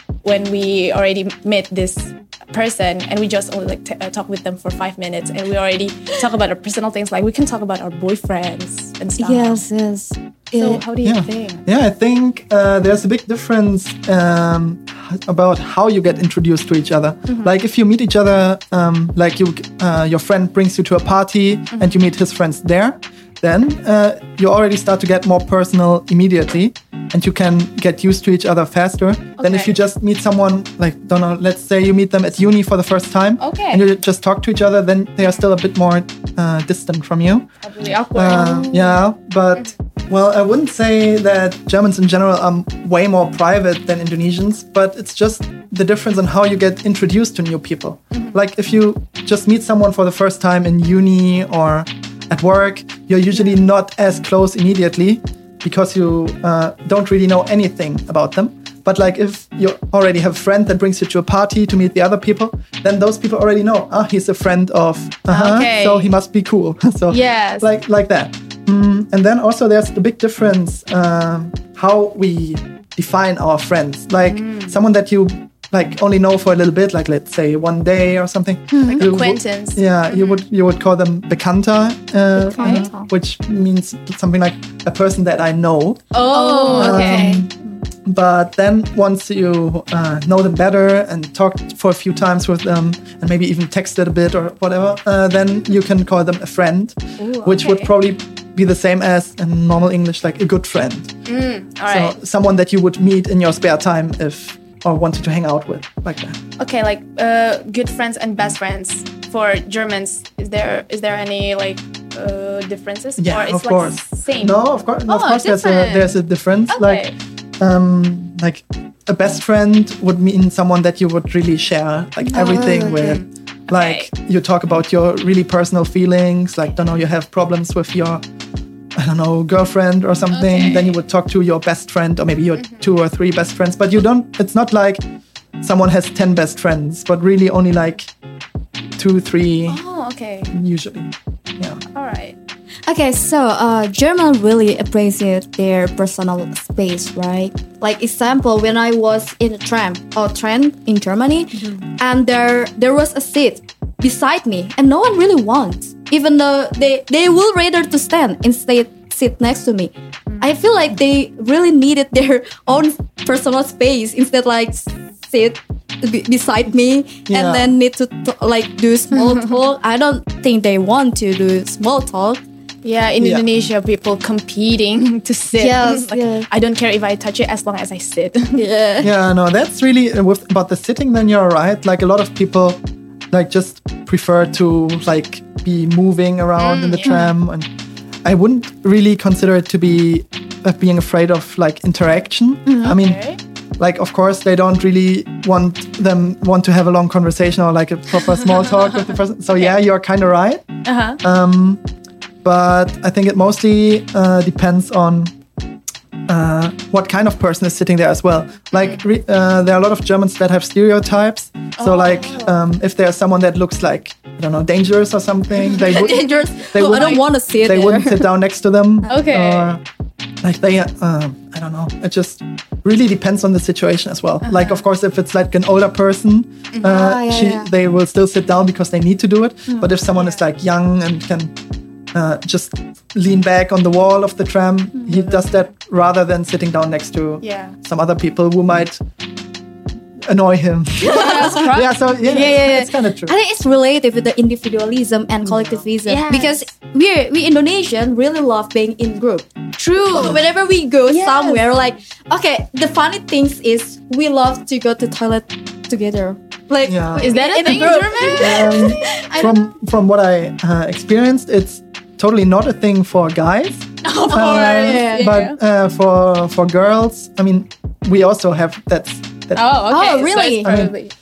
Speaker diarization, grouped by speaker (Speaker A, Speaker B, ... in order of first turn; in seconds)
Speaker A: 0.2-9.6, 10.6-11.7, 17.3-17.5, 21.7-22.0, 29.4-29.8, 33.4-33.9, 37.6-39.0, 65.3-66.1, 67.1-67.7, 74.3-74.8, 78.9-80.4, 82.6-82.9, 86.1-87.4, 97.3-97.9, 101.3-102.2, 106.6-116.1, 116.7-117.2, 122.3-124.1, 130.3-131.0, 139.7-140.5, 141.9-142.4, 169.2-169.4, 172.8-178.6, 186.6-187.3, 192.8-193.4, 200.9-201.2, 211.8-212.5, 215.7-217.2, 219.1-219.8, 224.4-224.8, 226.7-227.1, 230.1-230.4, 237.4-237.8, 241.0-242.7, 246.1-246.7, 249.8-250.4, 251.1-251.7, 257.2-259.5, 264.0-265.6, 269.6-271.1
Speaker B: 9.2-10.8, 78.7-79.1, 82.4-83.1, 86.2-87.5, 122.3-123.2, 142.9-172.4, 175.6-176.5, 178.6-179.1, 192.7-192.9, 215.9-218.3, 226.8-227.7, 241.0-241.7, 242.2-259.6, 264.7-265.3, 269.9-270.7
Speaker C: 11.0-37.5, 38.1-86.0, 86.7-87.5, 88.0-101.1, 101.9-106.4, 113.2-117.0, 117.6-128.2, 129.0-135.0, 135.6-138.1, 139.0-139.8, 140.5-141.8, 167.3-167.8, 173.2-173.5, 179.0-187.7, 188.2-193.2, 193.8-200.7, 201.2-201.8, 202.4-205.3, 206.3-219.8, 220.4-231.5, 232.1-239.0, 240.2-243.3, 245.4-245.8, 256.8-269.8, 270.6-270.9